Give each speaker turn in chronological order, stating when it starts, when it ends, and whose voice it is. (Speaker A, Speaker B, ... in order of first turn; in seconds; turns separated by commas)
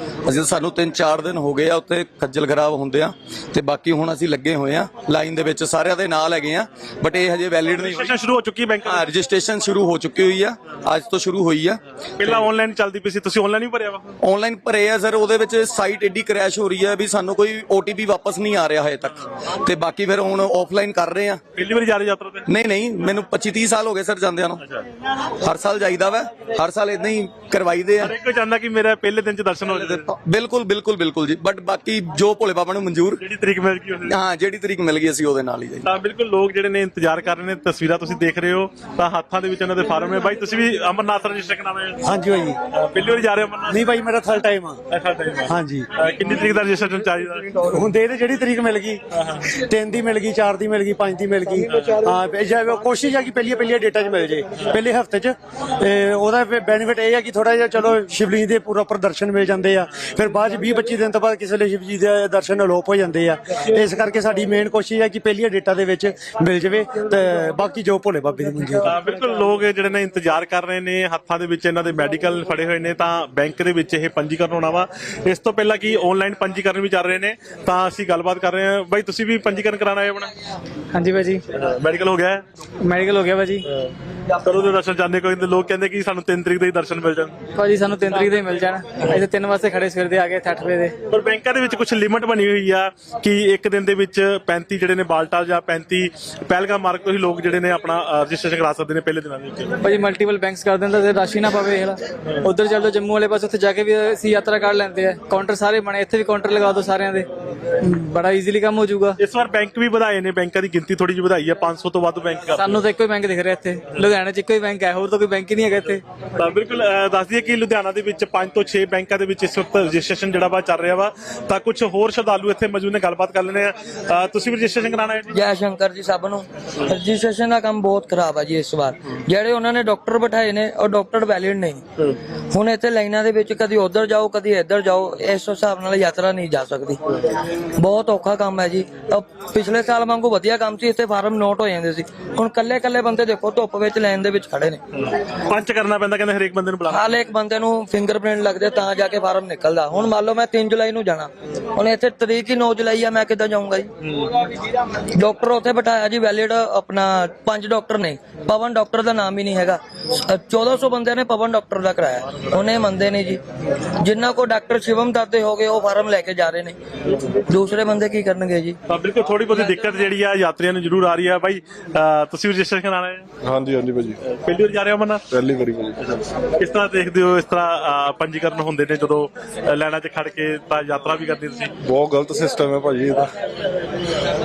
Speaker A: 0.2-8.2, Speaker B: 7.7-9.0, Speaker A: 8.8-11.8, Speaker B: 12.2-14.2, Speaker A: 14.2-21.4, Speaker B: 21.6-22.5, Speaker A: 22.5-24.6, Speaker A: 25.4-28.1, Speaker B: 28.0-30.1, Speaker A: 29.6-33.2, Speaker B: 33.2-34.1, Speaker A: 34.1-35.9, Speaker B: 35.8-42.0, Speaker C: 42.0-42.6, Speaker B: 42.7-43.8, Speaker C: 43.7-44.8, Speaker B: 44.9-47.6, Speaker C: 45.5-45.9, Speaker C: 47.7-68.9, Speaker B: 49.1-49.4, Speaker B: 68.8-80.3, Speaker D: 80.9-81.4, Speaker B: 81.5-82.4, Speaker D: 82.8-83.7, Speaker B: 83.8-87.3, Speaker D: 87.5-90.9, Speaker B: 91.1-99.8, Speaker D: 99.8-107.3, Speaker D: 107.8-109.2, Speaker B: 109.2-112.8, Speaker D: 112.6-116.0, Speaker B: 116.4-125.3, Speaker E: 125.3-131.8, Speaker E: 132.5-137.0, Speaker E: 137.8-144.8, Speaker B: 144.9-147.1, Speaker E: 146.9-153.9, Speaker E: 155.1-163.4, Speaker E: 164.0-166.8, Speaker E: 167.4-168.8, Speaker B: 168.9-173.3, Speaker F: 173.4-174.2, Speaker B: 174.2-175.2, Speaker F: 175.3-175.9, Speaker B: 176.1-181.8, Speaker F: 181.8-183.3